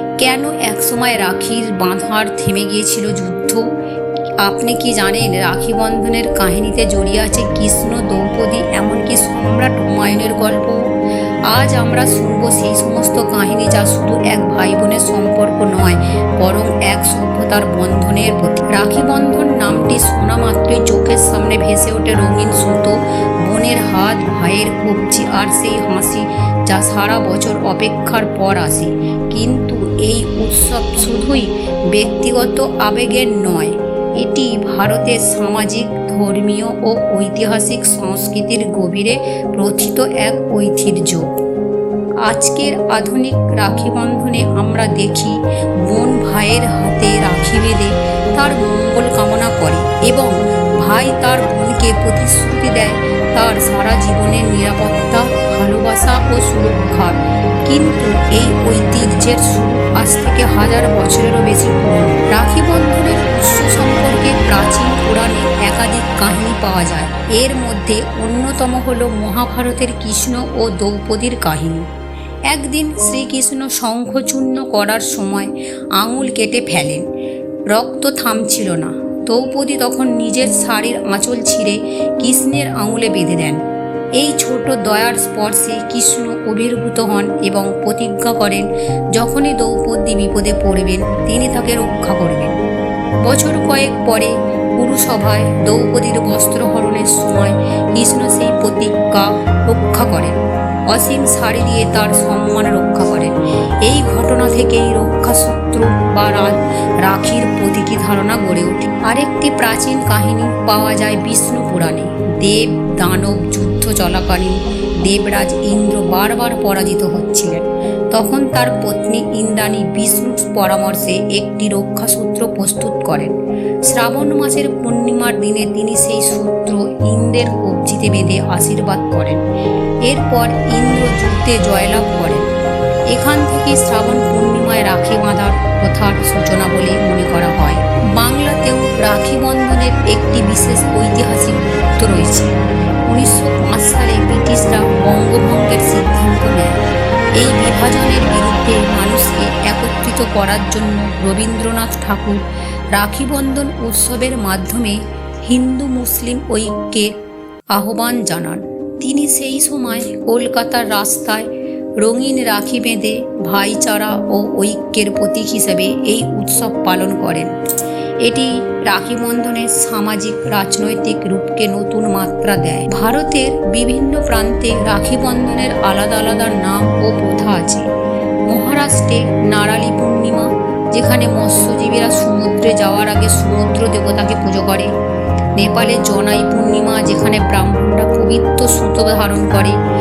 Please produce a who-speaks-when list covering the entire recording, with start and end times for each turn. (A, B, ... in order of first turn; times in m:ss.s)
0:00.2-0:03.6 A
0:04.4-0:10.8 A
0:11.5-0:41.2 A
0:42.2-0:45.4 A
0:45.9-1:11.8 A
1:12.5-1:17.0 A
1:17.7-1:23.6 A
1:24.2-1:32.5 A
1:33.2-1:40.4 A
1:40.9-1:43.3 A
1:43.8-2:03.3 A
2:03.9-2:09.4 A
2:10.0-2:12.4 A
2:13.1-2:22.5 A
2:23.1-2:26.8 A
2:27.4-2:32.4 A
2:32.9-2:37.1 A
2:37.7-2:41.4 A
2:42.0-2:47.5 A
2:48.2-2:57.8 A
2:58.5-3:04.9 A
3:05.6-3:09.8 A